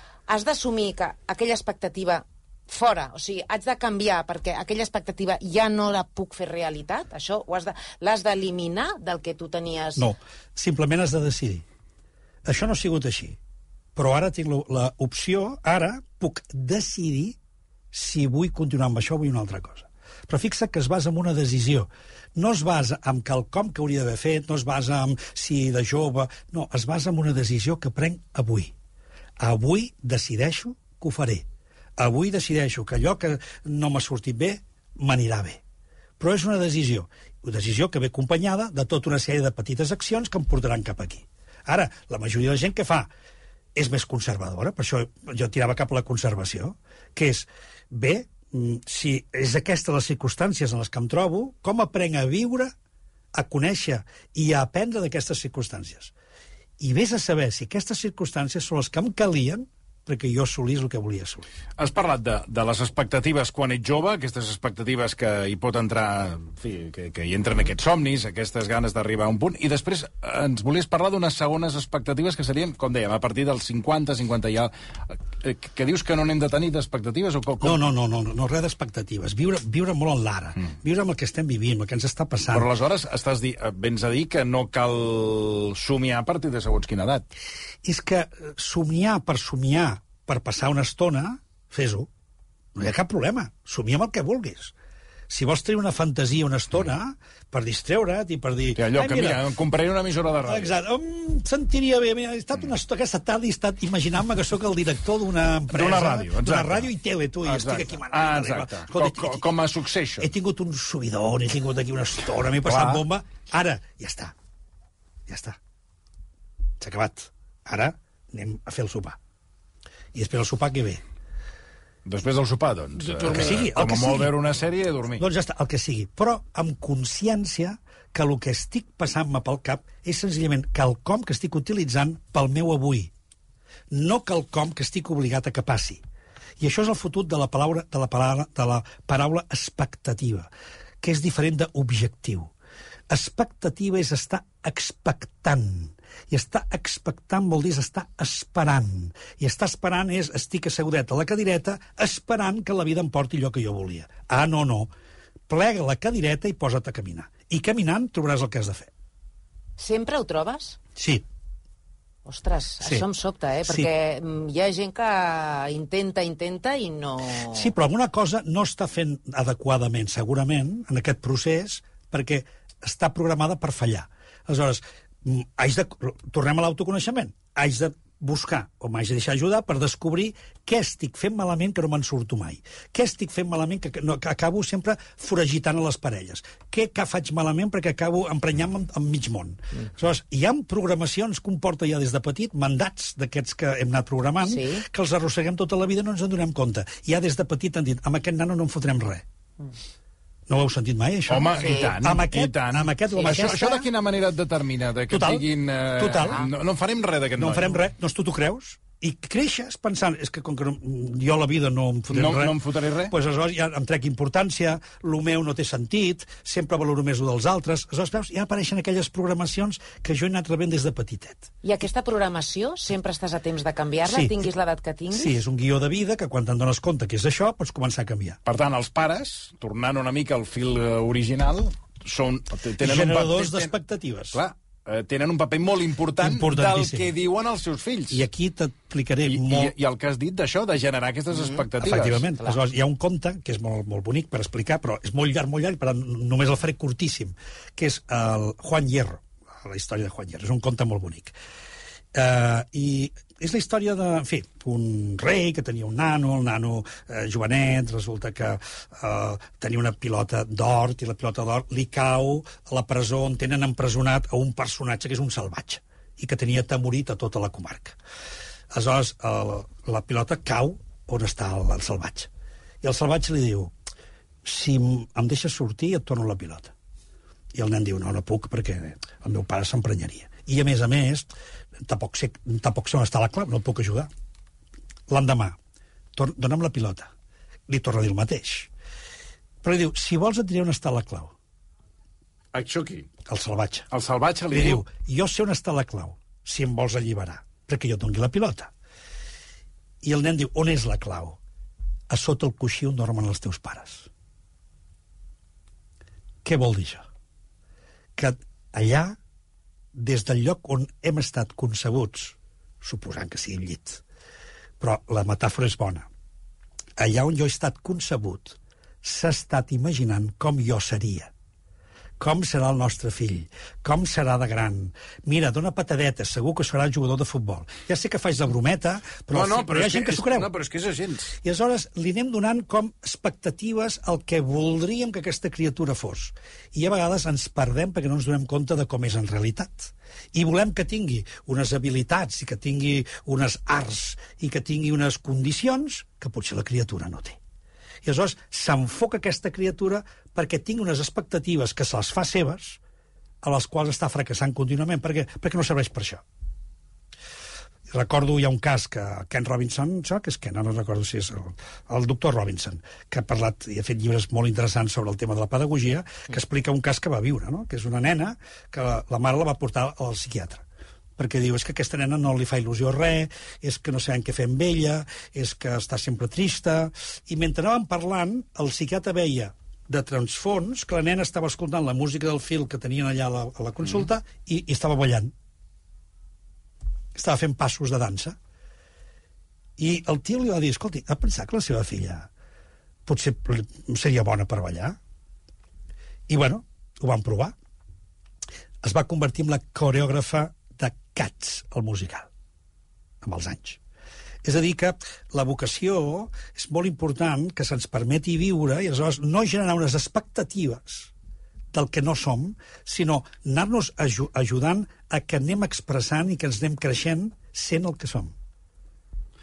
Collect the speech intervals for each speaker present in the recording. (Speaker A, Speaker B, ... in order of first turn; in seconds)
Speaker A: 0.3-10.1, 159.8-160.8, 162.2-167.7, 194.4-194.8, 201.5-201.9, 203.1-203.5, 221.6-225.4
Speaker B: 10.0-11.6, 12.4-13.4, 13.9-17.4, 17.9-28.7, 29.4-31.4, 32.0-35.6, 36.2-43.1, 43.8-52.7, 53.3-56.1, 56.8-61.5, 77.6-82.7, 87.8-92.1, 92.7-94.7, 95.3-99.4, 100.5-109.4, 110.2-114.3, 115.3-115.6, 116.8-119.2, 120.1-121.0, 123.2-124.3, 125.2-133.1, 133.9-136.0, 136.6-140.5, 141.0-142.5, 143.1-154.9, 155.5-158.9, 160.9-161.2, 167.5-199.2, 200.5-203.9, 205.1-206.4, 207.4-221.5, 224.1-224.5, 225.1-228.4, 232.8-234.4, 236.2-237.1, 238.1-239.7, 241.8-251.3, 252.1-268.0, 268.7-272.3, 272.8-273.7, 274.4-276.7, 277.5-281.3, 281.8-284.1, 285.1-285.6, 286.1-287.1, 287.7-288.7, 289.6-291.3, 293.2-293.9, 294.5-298.7, 300.0-301.4, 302.1-304.1, 306.4-307.1, 308.2-309.2, 309.9-314.0, 314.8-316.1, 317.0-321.3, 322.2-330.5, 331.4-347.4, 348.0-352.8, 353.4-356.2, 357.9-370.6, 371.2-385.3, 387.1-388.4, 389.8-392.3, 393.1-395.0, 396.3-397.5, 398.8-402.3, 403.2-403.8, 404.4-411.1, 411.7-418.3
Speaker C: 61.8-77.8, 82.5-87.3, 98.7-100.7, 105.7-106.9, 107.4-110.3, 112.6-113.0, 122.0-125.2, 201.3-207.8, 212.1-213.1, 228.4-233.7, 234.3-238.2, 239.2-242.4, 292.5-293.1, 293.9-294.8, 329.3-331.3